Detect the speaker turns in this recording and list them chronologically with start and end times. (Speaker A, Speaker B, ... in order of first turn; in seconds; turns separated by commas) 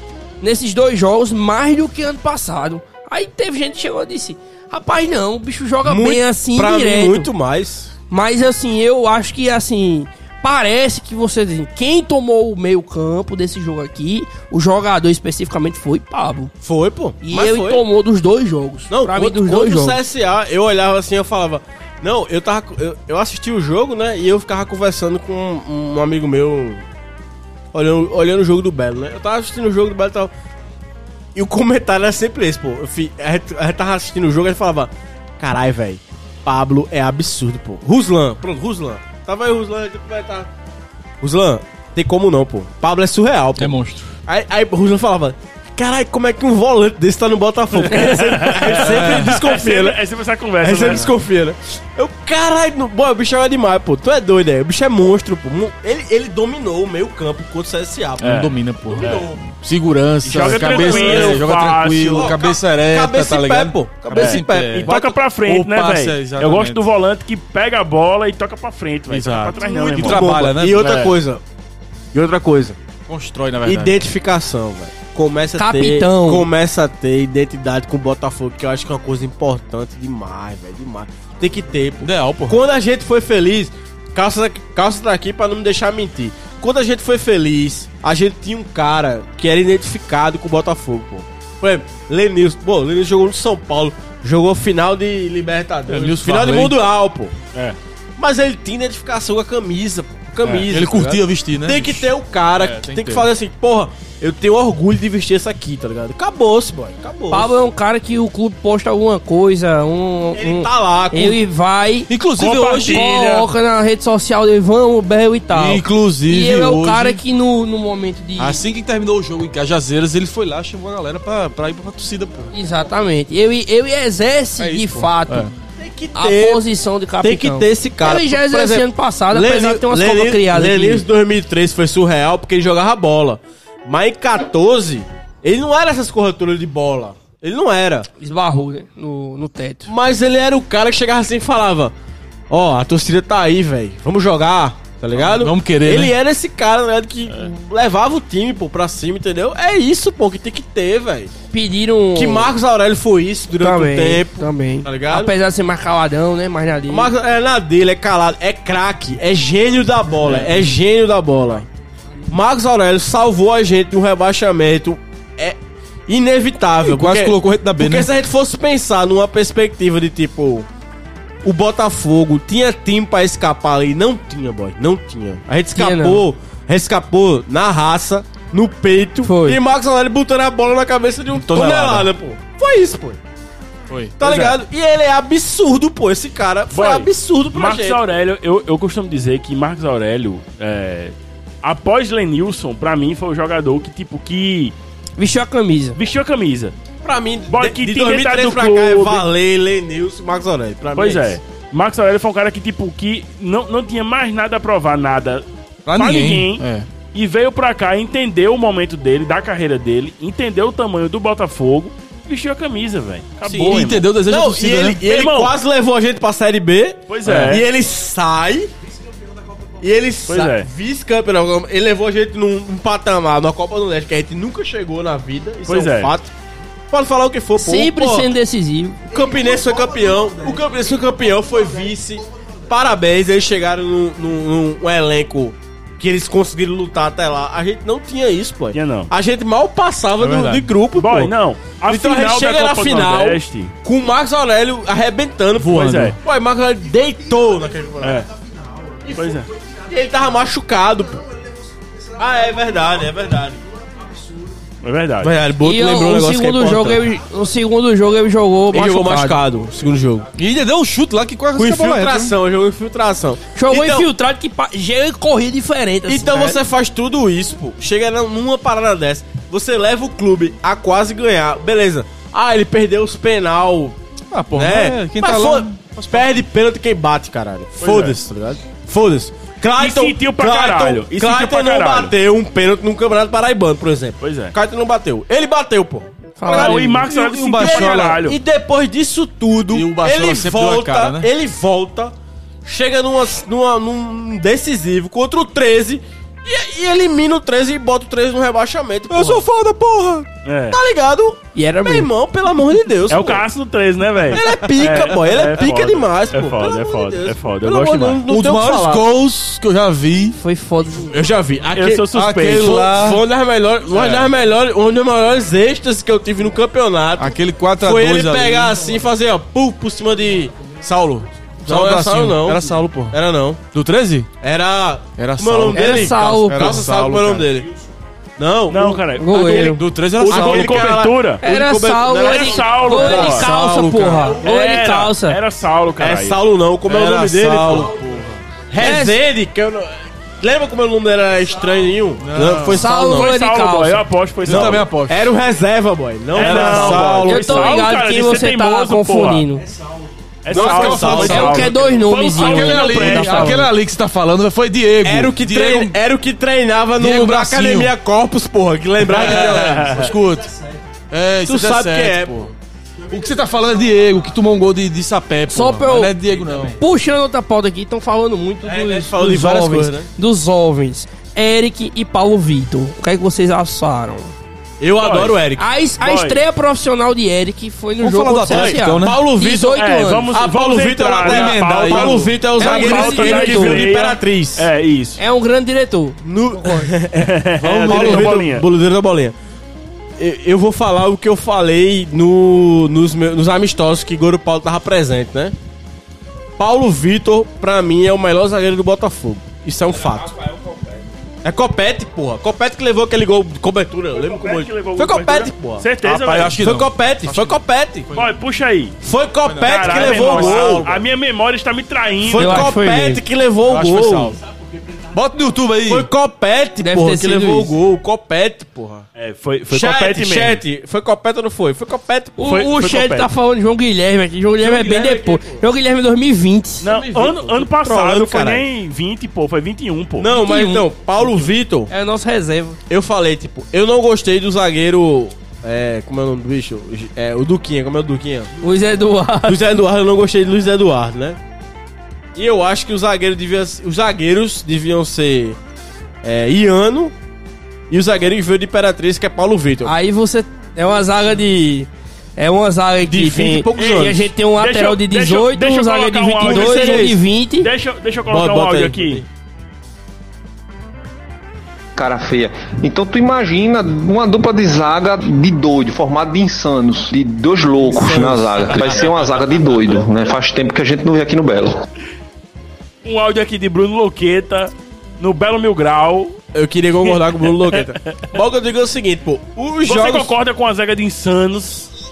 Speaker A: 0.4-7.3, Speaker B: 5.8-7.9, Speaker A: 8.1-16.5, Speaker B: 16.6-17.8, Speaker A: 17.2-20.0, Speaker B: 18.9-26.8, Speaker B: 27.7-30.3, Speaker B: 31.3-40.5, Speaker B: 41.2-43.7, Speaker C: 43.5-44.1, Speaker B: 44.2-50.0, Speaker D: 47.7-51.1, Speaker C: 48.8-49.4, Speaker B: 50.6-59.4, Speaker C: 58.2-66.8, Speaker D: 58.4-59.2, Speaker D: 60.2-62.3, Speaker B: 60.3-61.5, Speaker B: 62.1-65.2, Speaker D: 64.1-71.1, Speaker C: 69.1-71.0, Speaker B: 69.6-71.4, Speaker B: 72.1-72.8, Speaker C: 73.1-74.0, Speaker B: 73.6-97.3, Speaker A: 75.6-76.5, Speaker C: 82.0-82.6, Speaker C: 95.9-96.8, Speaker B: 98.2-107.5, Speaker C: 100.6-103.3, Speaker A: 107.3-112.1, Speaker B: 110.3-111.4, Speaker C: 112.1-113.2, Speaker D: 112.4-113.5, Speaker A: 112.9-118.6, Speaker C: 115.5-117.2, Speaker C: 118.4-122.5, Speaker A: 122.5-125.5, Speaker C: 124.6-125.5, Speaker B: 125.8-126.7, Speaker A: 126.1-131.0, Speaker B: 127.2-138.1, Speaker A: 138.2-139.9, Speaker B: 139.9-141.9, Speaker B: 142.5-151.3, Speaker C: 145.1-146.1, Speaker A: 151.5-152.5, Speaker B: 152.1-155.3, Speaker A: 153.6-157.1, Speaker B: 156.9-161.7, Speaker B: 162.3-170.7, Speaker C: 166.8-168.1, Speaker B: 171.4-183.2, Speaker A: 175.7-176.2, Speaker A: 179.2-179.6, Speaker C: 181.3-182.1, Speaker C: 183.9-184.6, Speaker B: 184.2-188.0, Speaker D: 186.7-194.7, Speaker A: 195.2-196.0, Speaker D: 195.9-196.7, Speaker B: 197.0-201.4, Speaker D: 197.5-199.3, Speaker D: 200.9-205.4, Speaker C: 205.8-206.9, Speaker D: 205.9-214.1, Speaker B: 213.5-218.7, Speaker C: 213.5-215.0, Speaker D: 215.0-215.5, Speaker D: 217.1-217.7, Speaker C: 217.2-217.6, Speaker B: 219.8-226.3, Speaker D: 220.3-220.7, Speaker D: 225.7-226.1, Speaker B: 226.9-228.3, Speaker A: 227.6-229.1, Speaker B: 229.1-241.3, Speaker D: 238.7-239.1, Speaker D: 240.2-243.7, Speaker B: 241.9-248.2, Speaker D: 245.6-246.2, Speaker D: 248.0-248.3, Speaker B: 249.0-249.3, Speaker D: 249.1-249.5, Speaker B: 249.9-251.3, Speaker B: 252.1-253.6, Speaker D: 254.8-255.3, Speaker B: 255.2-257.0, Speaker A: 255.6-259.4, Speaker B: 258.7-260.3, Speaker C: 260.3-262.4, Speaker B: 261.5-264.1, Speaker A: 263.5-266.6, Speaker B: 266.1-273.9, Speaker C: 274.3-276.4, Speaker B: 274.6-286.8, Speaker D: 277.8-278.2, Speaker D: 279.8-282.1, Speaker D: 284.2-284.5, Speaker A: 286.4-286.8, Speaker C: 286.4-288.2, Speaker D: 286.5-288.4, Speaker B: 287.6-299.4, Speaker C: 289.7-291.3, Speaker C: 299.1-300.3, Speaker D: 300.4-300.8, Speaker B: 300.7-303.4, Speaker A: 301.5-302.1, Speaker D: 303.1-308.2, Speaker B: 304.3-309.1, Speaker C: 308.3-310.4, Speaker A: 310.4-311.2, Speaker B: 311.1-320.6, Speaker D: 311.7-312.9, Speaker C: 312.1-313.2, Speaker C: 313.9-314.3, Speaker C: 317.2-318.8, Speaker C: 320.8-323.2, Speaker B: 321.6-323.6, Speaker C: 323.7-324.3, Speaker B: 324.4-327.7, Speaker C: 325.2-327.6, Speaker A: 325.7-326.8, Speaker B: 328.4-329.0, Speaker D: 328.7-331.4, Speaker A: 329.2-329.8, Speaker C: 329.7-330.9, Speaker B: 330.2-334.4, Speaker A: 331.4-335.4, Speaker D: 332.2-333.5, Speaker C: 333.6-334.2, Speaker D: 334.4-336.4, Speaker B: 336.0-337.9, Speaker C: 336.9-338.4, Speaker B: 338.7-343.3, Speaker A: 338.8-339.2, Speaker C: 342.2-342.9, Speaker A: 342.6-344.0, Speaker D: 343.1-344.9, Speaker C: 344.4-345.3, Speaker B: 344.4-347.6, Speaker D: 346.3-349.5, Speaker C: 346.3-347.5, Speaker A: 347.2-349.6, Speaker D: 350.4-353.7, Speaker C: 350.5-351.7, Speaker B: 350.5-351.7, Speaker A: 350.9-353.7, Speaker C: 352.3-356.0, Speaker B: 355.0-360.1, Speaker C: 357.0-357.9, Speaker C: 359.0-360.5, Speaker D: 359.1-360.1, Speaker C: 361.1-362.5, Speaker B: 361.4-362.5, Speaker C: 363.1-366.8, Speaker A: 365.5-366.2, Speaker A: 366.8-374.3, Speaker B: 368.6-370.1, Speaker B: 374.8-375.6, Speaker D: 375.0-375.4, Speaker A: 375.6-380.3, Speaker D: 376.0-376.4, Speaker C: 378.0-379.2, Speaker B: 378.5-379.8, Speaker D: 379.6-385.2, Speaker B: 380.3-384.7, Speaker C: 381.2-382.4, Speaker A: 382.6-383.9, Speaker A: 385.2-386.9, Speaker B: 386.2-389.3, Speaker D: 387.2-388.6, Speaker C: 387.8-388.3, Speaker B: 390.2-395.5, Speaker B: 396.6-400.4, Speaker B: 401.4-405.9, Speaker D: 404.1-406.6, Speaker C: 406.0-408.3, Speaker B: 406.5-408.1, Speaker D: 408.1-408.9, Speaker B: 409.0-410.9, Speaker C: 409.4-411.0, Speaker D: 409.6-412.7, Speaker B: 412.2-414.4, Speaker A: 412.4-413.2, Speaker C: 413.6-414.4, Speaker C: 415.1-416.1, Speaker B: 415.9-419.1, Speaker A: 416.8-417.8, Speaker D: 419.1-420.6, Speaker B: 419.7-422.7, Speaker A: 422.4-426.9, Speaker D: 422.5-423.3, Speaker B: 424.6-425.6, Speaker D: 426.8-430.3, Speaker B: 426.8-428.6, Speaker B: 430.2-431.9, Speaker A: 430.3-430.9, Speaker A: 431.9-432.8, Speaker B: 432.9-438.5, Speaker A: 438.6-439.6, Speaker B: 439.4-441.4, Speaker B: 442.3-445.6, Speaker B: 446.2-447.1, Speaker B: 447.9-449.9, Speaker A: 449.8-457.7, Speaker B: 453.1-454.3, Speaker D: 454.6-459.2, Speaker B: 456.4-457.2, Speaker B: 458.3-459.2, Speaker E: 461.9-471.8, Speaker B: 467.8-469.1, Speaker D: 473.0-476.4, Speaker B: 476.5-480.3, Speaker D: 477.0-478.3, Speaker D: 479.8-481.9